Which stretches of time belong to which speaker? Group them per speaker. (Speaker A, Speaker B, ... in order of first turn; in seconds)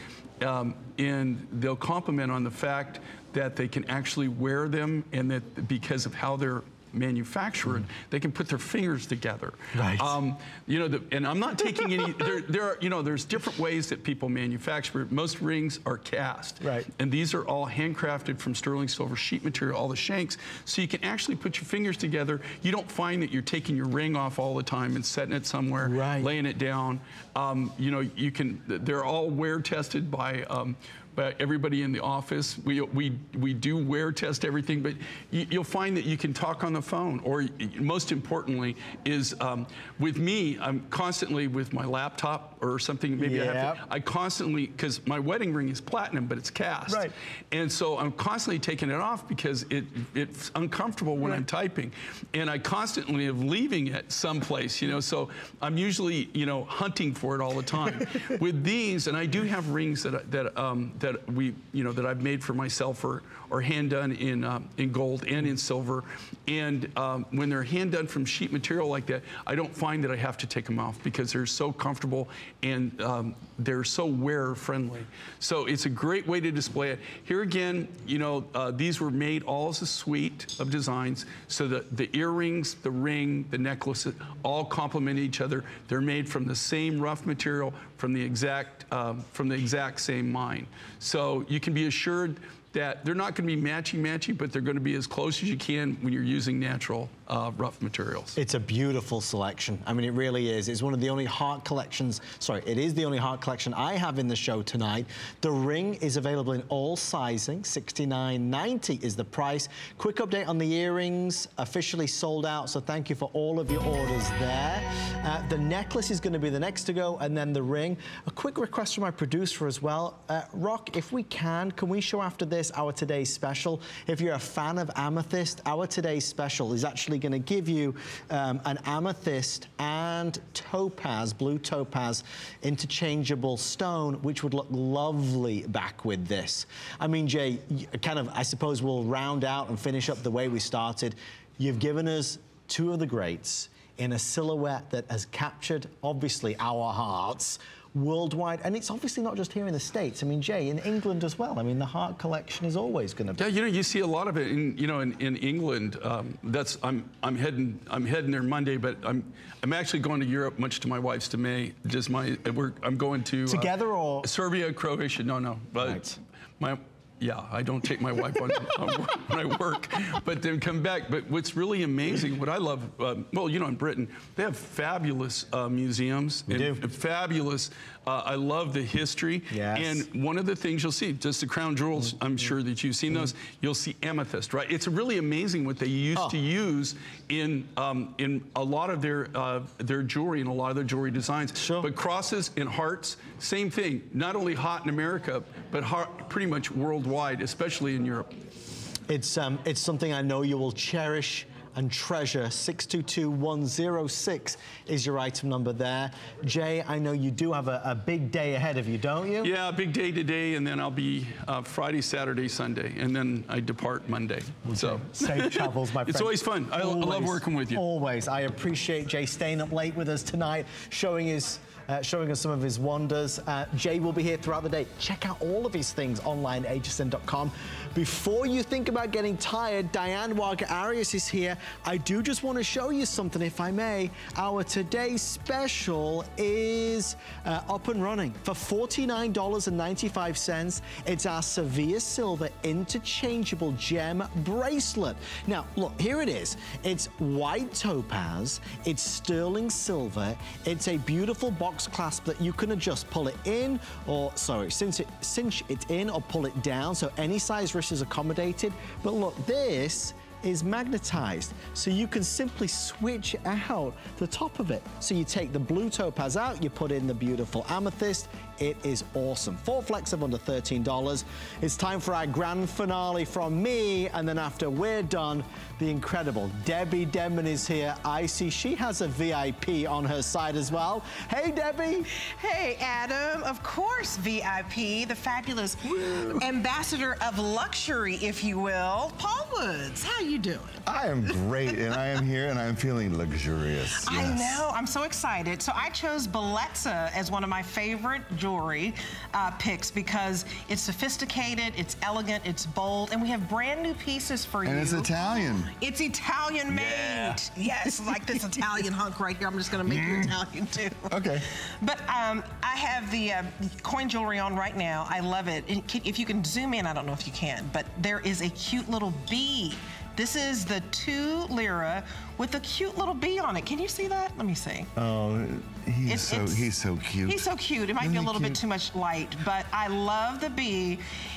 Speaker A: 0.4-98.4, 153.4-163.7, 164.2-198.3, 209.4-217.8
Speaker B: 9.7-10.2, 16.6-16.9, 25.8-26.3, 43.2-43.8, 46.9-47.1, 98.3-153.5, 163.5-164.3, 165.8-166.1, 176.5-176.8, 179.5-180.0, 191.5-191.9, 199.1-209.5, 214.6-282.1
Speaker C: 282.4-292.0, 294.0-324.9, 326.0-331.0
Speaker D: 290.8-294.6, 304.6-305.7, 306.7-307.4, 309.9-310.3, 311.1-311.4, 324.9-328.6